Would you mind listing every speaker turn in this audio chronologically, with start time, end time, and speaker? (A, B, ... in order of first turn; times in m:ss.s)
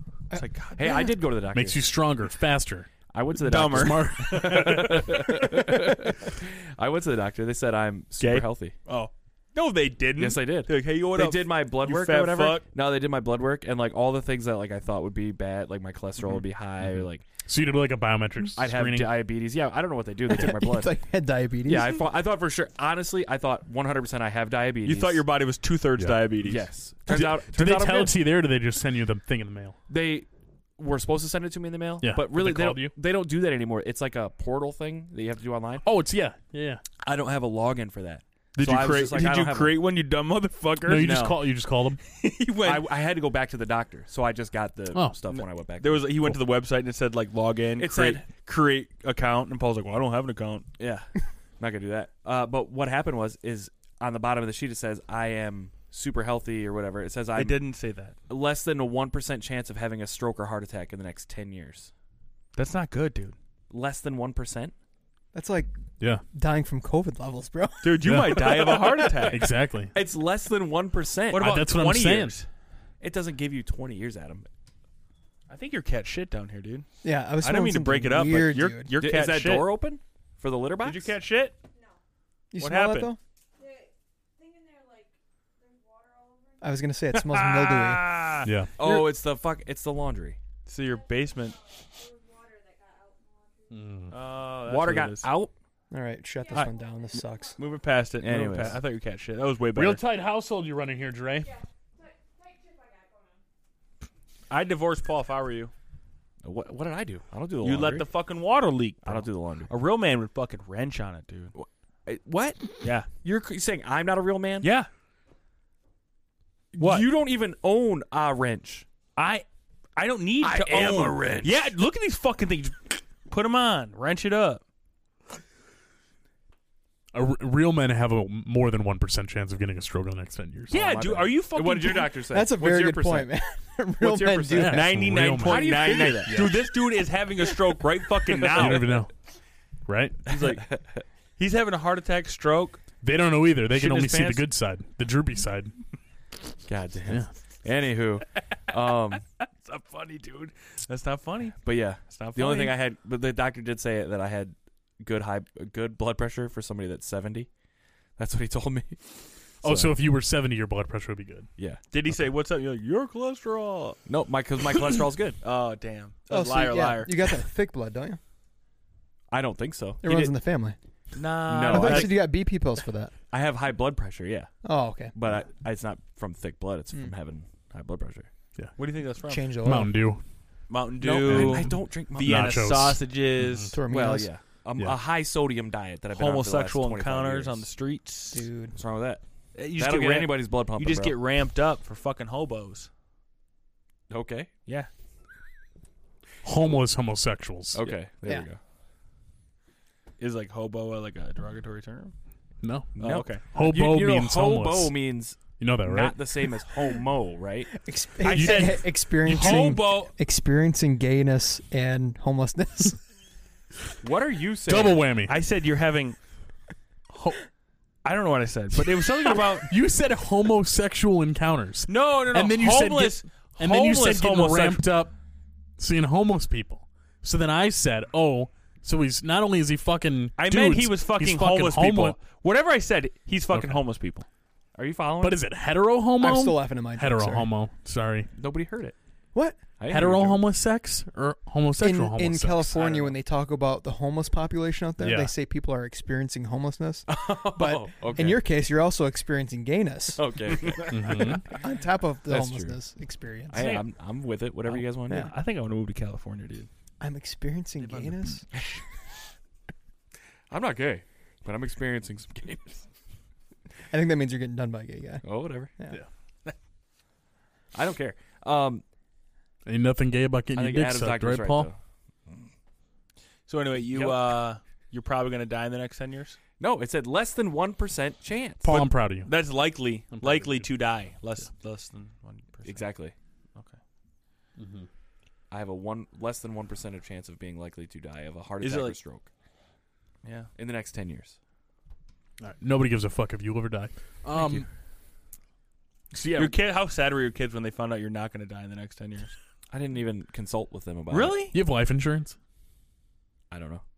0:00.3-0:01.1 A
0:00.3-0:01.0 B
0:00.8-0:01.9 C
0:01.5-0:02.9 D
0:03.1-0:08.7 C
0:03.4-0:05.5 B
0:03.5-0:05.0 D
0:08.2-0:12.6 B
0:10.2-0:17.2 C
0:16.9-0:19.2 D
0:18.6-0:20.9 C
0:20.3-0:22.0 A
0:21.6-0:25.2 C
0:24.8-0:26.6 B
0:26.4-0:28.2 C
0:27.1-0:29.8 D
0:29.9-0:35.8 C
0:32.0-0:32.9 D
0:35.8-0:36.8 D
0:37.0-0:39.8 C
0:38.5-0:41.3 B
0:40.8-0:42.0 D
0:41.0-0:41.4 C
0:42.1-0:42.9 B
0:42.6-0:46.3 C
0:44.9-0:45.2 D
0:45.3-0:50.7 B
0:47.8-0:48.2 C
0:50.8-0:57.6 C
0:57.4-0:58.2 B
0:58.3-1:01.9 C
1:02.5-1:03.3 B
1:03.7-1:04.7 C
1:05.3-1:05.7 A
1:06.3-1:08.6 A
1:07.8-1:09.4 B
1:08.0-1:08.4 D
1:08.9-1:11.6 C
1:09.3-1:09.9 D
1:11.3-1:12.5 B
1:11.4-1:12.4 D
1:13.0-1:14.5 C
1:15.5-1:16.9 B
1:17.0-1:18.9 A
1:17.4-1:19.7 B
1:19.0-1:21.1 C
1:20.8-1:21.6 B
1:21.7-1:22.0 E
1:22.5-1:23.2 A
1:22.6-1:23.1 B
1:23.6-1:26.8 E
1:26.6-1:28.3 A
1:27.1-1:28.9 B
1:28.4-1:28.7 D
1:28.8-1:30.4 C
1:30.7-1:31.6 B
1:30.8-1:34.1 E
1:33.7-1:34.1 D
1:34.1-1:35.3 B
1:34.6-1:35.5 C
1:35.9-1:37.6 A
1:36.4-1:37.8 E
1:36.5-1:40.0 B
1:38.2-1:38.8 C
1:39.7-1:41.5 D
1:41.4-1:43.4 E
1:44.5-1:45.7 B
1:46.4-1:48.1 C
1:47.6-1:51.5 B
1:49.0-1:49.7 C
1:51.5-1:54.7 C
1:52.8-1:53.1 B
1:54.6-1:54.9 B
1:56.7-1:58.8 C
1:56.8-1:57.1 B
1:59.2-1:59.4 B
2:00.0-2:04.6 B
2:00.4-2:01.7 C
2:07.1-2:10.9 D
2:10.7-2:12.2 B
2:10.7-2:13.3 C
2:12.3-2:14.9 A
2:14.0-2:14.6 C
2:14.2-2:19.0 B
2:14.5-2:16.5 D
2:15.4-2:16.5 C
2:18.4-2:18.9 C
2:18.5-2:19.1 D
2:19.9-2:20.3 D
2:20.3-2:20.7 B
2:20.3-2:20.7 C
2:21.4-2:22.8 B
2:23.0-2:25.7 D
2:23.7-2:24.4 B
2:26.6-2:29.2 C
2:29.6-2:32.8 B
2:31.6-2:37.5 C
2:38.2-2:39.1 C
2:39.6-2:40.0 C
2:39.6-2:41.5 D
2:41.9-2:44.0 B
2:44.0-2:45.4 C
2:45.4-2:47.4 B
2:46.3-2:48.2 A
2:49.3-2:50.3 C
2:50.0-2:50.8 A
2:51.2-2:52.2 B
2:51.4-2:52.2 C
2:51.7-2:53.1 A
2:53.3-2:54.5 C
2:54.6-2:55.1 A
2:55.1-2:58.3 C
2:58.8-2:59.5 B
2:59.3-3:00.0 A
2:59.6-3:00.2 D
3:00.7-3:03.7 B
3:01.0-3:02.6 C
3:01.2-3:03.7 D
3:03.7-3:04.3 A
3:03.9-3:07.7 C
3:06.1-3:08.5 B
3:08.3-3:08.7 A
3:08.7-3:09.2 C
3:09.5-3:12.9 B
3:09.7-3:11.2 C
3:14.1-3:14.5 C
3:16.4-3:17.8 D
3:17.7-3:18.6 C
3:20.2-3:22.1 B
3:22.6-3:24.9 D
3:23.0-3:27.7 C
3:23.0-3:23.5 B
3:25.6-3:26.2 D
3:27.7-3:33.0 A
3:28.2-3:30.1 B
3:28.3-3:28.8 D
3:34.0-3:35.0 C
3:34.7-3:35.3 D
3:35.3-3:36.2 B
3:37.1-3:37.4 D
3:38.0-3:39.7 B
3:39.6-3:45.1 D
3:41.9-3:44.8 B
3:45.8-3:52.2 D
3:50.4-3:54.2 B
3:53.5-3:53.8 D
3:54.7-3:55.4 C
3:55.2-3:58.3 D
3:56.2-3:57.5 A
3:58.3-3:58.9 C
3:59.8-4:00.4 C
3:59.9-4:02.8 D
4:01.8-4:10.7 A
4:02.8-4:03.0 B
4:05.0-4:05.3 D
4:07.1-4:08.4 C
4:10.2-4:11.4 C
4:10.9-4:11.4 D
4:11.3-4:13.7 A
4:12.3-4:12.8 C
4:13.5-4:15.3 C
4:13.5-4:13.9 B
4:14.7-4:16.7 B
4:17.0-4:18.5 A
4:17.8-4:18.6 B
4:20.5-4:22.9 C
4:23.9-4:25.2 A
4:25.2-4:25.7 C
4:27.7-4:28.8 C
4:29.6-4:31.7 D
4:30.5-4:31.8 C
4:33.5-4:36.4 B
4:33.9-4:34.3 C
4:36.6-4:38.7 C
4:38.6-4:39.3 D
4:38.7-4:42.9 B
4:40.1-4:40.7 D
4:42.6-4:43.1 C
4:44.6-4:44.9 D
4:45.5-4:49.3 C
4:48.6-4:49.0 B
4:50.2-4:50.5 B
4:50.6-4:51.4 C
4:52.4-4:54.6 D
4:56.2-4:59.3 B
4:59.7-5:01.4 C
5:01.1-5:01.6 B
5:01.5-5:02.4 D
5:03.5-5:03.8 C